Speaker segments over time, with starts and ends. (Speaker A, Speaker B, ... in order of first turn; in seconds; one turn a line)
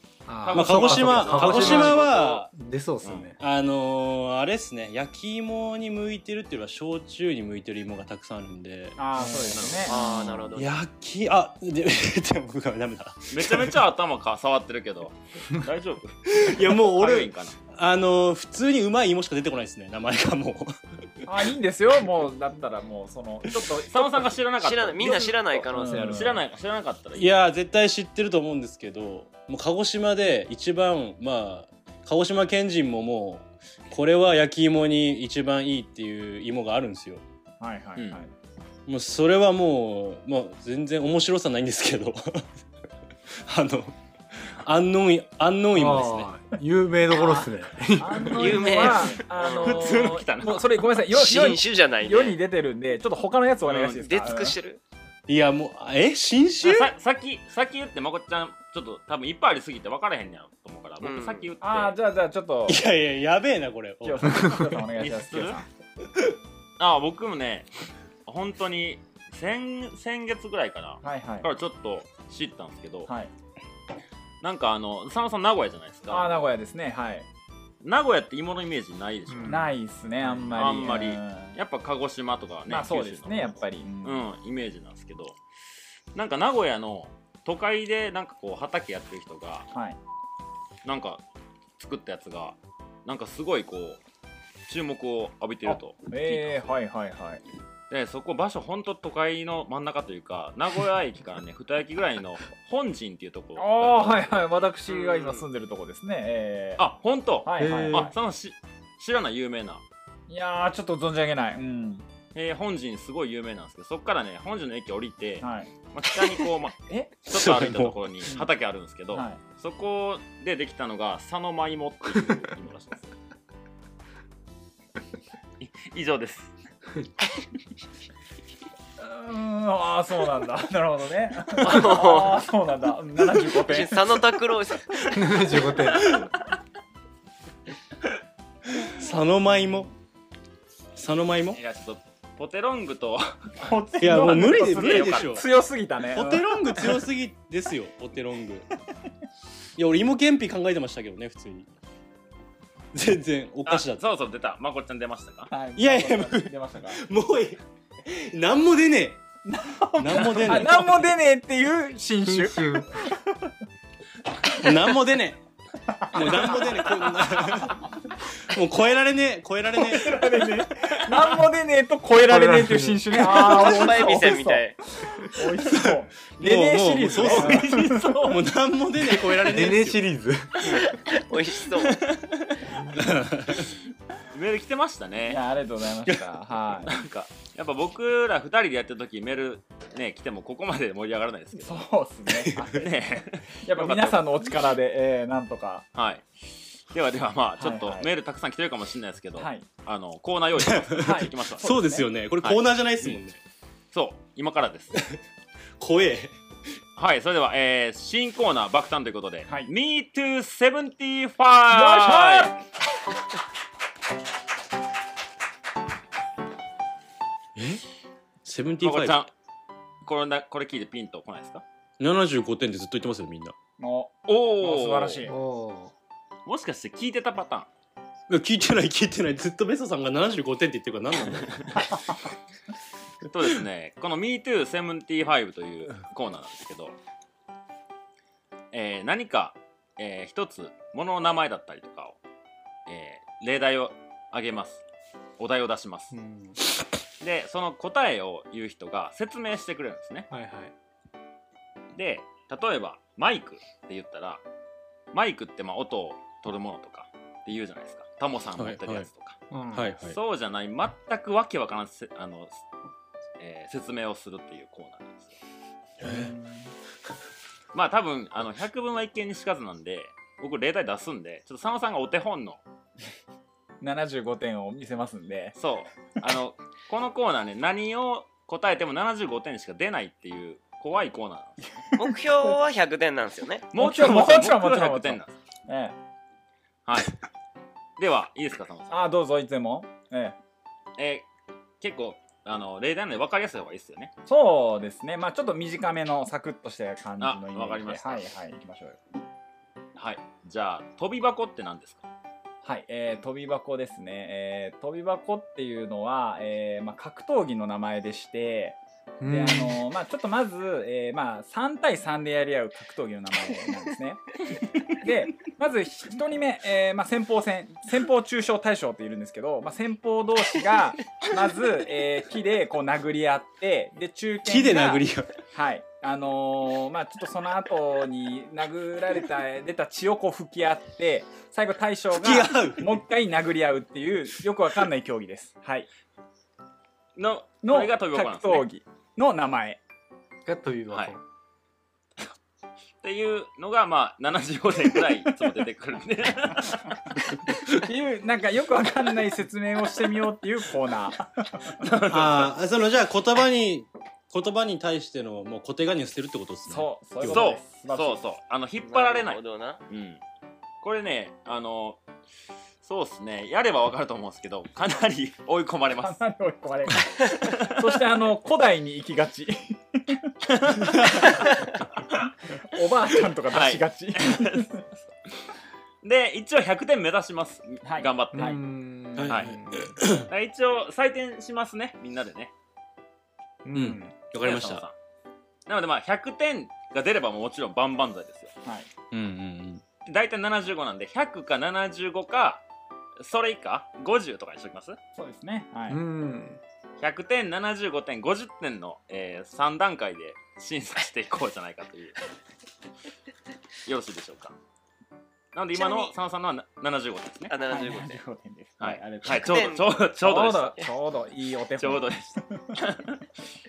Speaker A: 0.2-3.4
Speaker B: 0.4-2.5
Speaker C: 0.5-2.5
Speaker B: 3.0-3.3
Speaker C: 3.4-9.0
Speaker D: 9.0-9.9
Speaker A: 9.2-10.5
Speaker B: 9.5-9.8
Speaker E: 9.9-10.7
Speaker C: 9.9-13.8
Speaker B: 13.3-17.6
Speaker C: 16.3-20.7
Speaker D: 21.2-24.3
Speaker B: 23.8-27.3
Speaker E: 24.6-26.4
Speaker D: 25.7-26.4
Speaker C: 27.1-37.2
Speaker D: 37.6-38.3
Speaker C: 38.9-42.5
Speaker C: 43.3-46.3
Speaker A: 45.7-49.0
Speaker D: 48.0-54.5
Speaker E: 48.4-50.0
Speaker B: 49.3-50.7
Speaker E: 51.1-52.4
Speaker B: 53.7-54.0
Speaker E: 53.8-54.8
Speaker C: 55.3-56.9
Speaker B: 56.6-62.0
Speaker E: 61.0-61.5
Speaker D: 61.6-62.8
Speaker C: 62.7-64.4
Speaker D: 64.0-65.7
Speaker B: 65.0-65.6
Speaker B: 66.8-67.7
Speaker B: 68.2-73.1
Speaker D: 71.0-71.5
Speaker B: 74.4-76.3
Speaker D: 76.1-77.3
Speaker B: 77.8-79.7
Speaker A: 79.3-79.7
Speaker D: 79.5-81.5
Speaker B: 80.5-85.4
Speaker D: 82.7-84.2
Speaker B: 86.1-89.7
Speaker D: 89.7-90.0
Speaker B: 90.8-91.2
Speaker B: 91.8-94.0
Speaker B: 94.7-96.7
Speaker D: 95.7-97.4
Speaker B: 97.9-104.5
Speaker D: 103.6-106.8
Speaker E: 104.9-105.4
Speaker B: 106.8-109.8
Speaker D: 107.4-108.1
Speaker A: 107.6-108.1
Speaker D: 110.3-112.0
Speaker B: 112.3-123.1
Speaker D: 115.4-115.7
Speaker C: 117.3-118.0
Speaker D: 119.1-119.4
Speaker B: 125.6-126.5
Speaker D: 129.0-134.2
Speaker E: 131.6-132.4
Speaker E: 133.5-135.1
Speaker A: 135.1-136.2
Speaker C: 138.8-139.9
Speaker C: 140.9-141.6
Speaker B: 141.5-143.6
Speaker D: 143.6-147.0
Speaker C: 144.0-145.4
Speaker B: 144.2-145.4
Speaker C: 146.1-148.7
Speaker C: 149.8-151.7
Speaker C: 152.9-154.0
Speaker B: 153.7-155.5
Speaker D: 155.5-157.0
Speaker C: 155.8-159.2
Speaker D: 159.4-163.5
Speaker C: 160.0-161.1
Speaker A: 162.2-163.0
Speaker C: 164.5-165.4
Speaker D: 165.9-167.6
Speaker C: 166.1-170.4
Speaker D: 169.8-178.0
Speaker A: 172.2-173.2
Speaker E: 173.2-174.8
Speaker C: 175.7-180.0
Speaker B: 177.1-178.4
Speaker A: 179.5-180.9
Speaker E: 180.8-182.0
Speaker B: 181.8-182.7
Speaker C: 182.9-183.7
Speaker B: 184.3-185.4
Speaker D: 185.3-186.9
Speaker B: 186.9-191.8
Speaker D: 191.5-192.9
Speaker C: 192.3-192.7
Speaker B: 192.7-194.5
Speaker D: 193.6-195.8
Speaker B: 195.9-196.2
Speaker B: 196.9-201.7
Speaker D: 197.6-198.1
Speaker D: 199.4-199.7
Speaker C: 200.6-203.4
Speaker D: 201.0-202.1
Speaker B: 202.4-203.2
Speaker B: 203.9-204.9
Speaker C: 204.9-205.2
Speaker C: 205.8-206.3
Speaker B: 207.0-212.5
Speaker D: 211.7-212.6
Speaker C: 217.6-217.8
Speaker C: 218.4-219.2
Speaker B: 218.8-219.3
Speaker B: 220.0-221.6
Speaker C: 222.0-223.5
Speaker D: 223.8-225.3
Speaker B: 224.3-225.2
Speaker A: 225.2-225.9
Speaker B: 226.4-227.7
Speaker C: 228.3-231.9
Speaker B: 233.3-236.9
Speaker B: 238.7-242.2
Speaker B: 242.9-244.8
Speaker B: 245.4-246.1
Speaker A: 246.1-246.6
Speaker B: 247.2-250.3
Speaker A: 250.3-250.7
Speaker B: 251.9-254.4
Speaker B: 255.1-259.4
Speaker C: 258.6-259.1
Speaker A: 259.5-259.9
Speaker C: 259.7-260.2
Speaker B: 260.1-262.6
Speaker B: 263.4-265.4
Speaker C: 266.0-266.3
Speaker B: 267.7-272.6
Speaker D: 273.8-275.6
Speaker B: 275.6-281.6
Speaker E: 281.9-283.6
Speaker B: 283.7-285.3
Speaker D: 283.8-285.9
Speaker B: 286.9-287.2
Speaker B: 288.0-289.1
Speaker D: 288.9-290.4
Speaker B: 291.0-291.2
Speaker B: 291.8-294.1
Speaker D: 294.2-299.0
Speaker B: 297.2-298.2
Speaker B: 299.9-302.0
Speaker D: 302.6-335.9
Speaker A: 309.2-309.8
Speaker C: 324.4-325.3
Speaker C: 332.1-333.0
Speaker B: 337.1-338.7
Speaker D: 337.6-339.8
Speaker A: 340.4-341.2
Speaker B: 343.0-347.0
Speaker D: 347.7-351.8
Speaker B: 351.8-352.5
Speaker C: 352.1-357.5
Speaker D: 356.7-358.2
Speaker B: 357.3-360.2
Speaker E: 358.8-359.8
Speaker B: 360.8-362.0
Speaker B: 362.8-366.2
Speaker D: 366.0-371.4
Speaker B: 367.4-367.7
Speaker B: 370.5-371.4
Speaker D: 372.6-374.8
Speaker B: 373.5-374.8
Speaker B: 376.0-378.6
Speaker D: 377.8-378.6
Speaker A: 378.3-379.9
Speaker C: 379.1-380.3
Speaker B: 379.3-379.6
Speaker B: 380.3-382.5
Speaker A: 383.6-384.1
Speaker C: 383.7-384.8
Speaker B: 384.4-384.9
Speaker B: 385.7-388.5
Speaker D: 388.6-388.9
Speaker C: 389.1-389.8
Speaker B: 390.1-392.6
Speaker B: 393.2-395.0
Speaker D: 395.1-396.0
Speaker A: 395.9-396.6
Speaker B: 397.0-402.2
Speaker B: 403.9-404.6
Speaker B: 405.5-407.5
Speaker E: 405.7-406.1
Speaker E: 407.5-408.2
Speaker D: 407.7-412.8
Speaker B: 408.8-410.9
Speaker E: 409.2-409.9
Speaker B: 411.8-413.2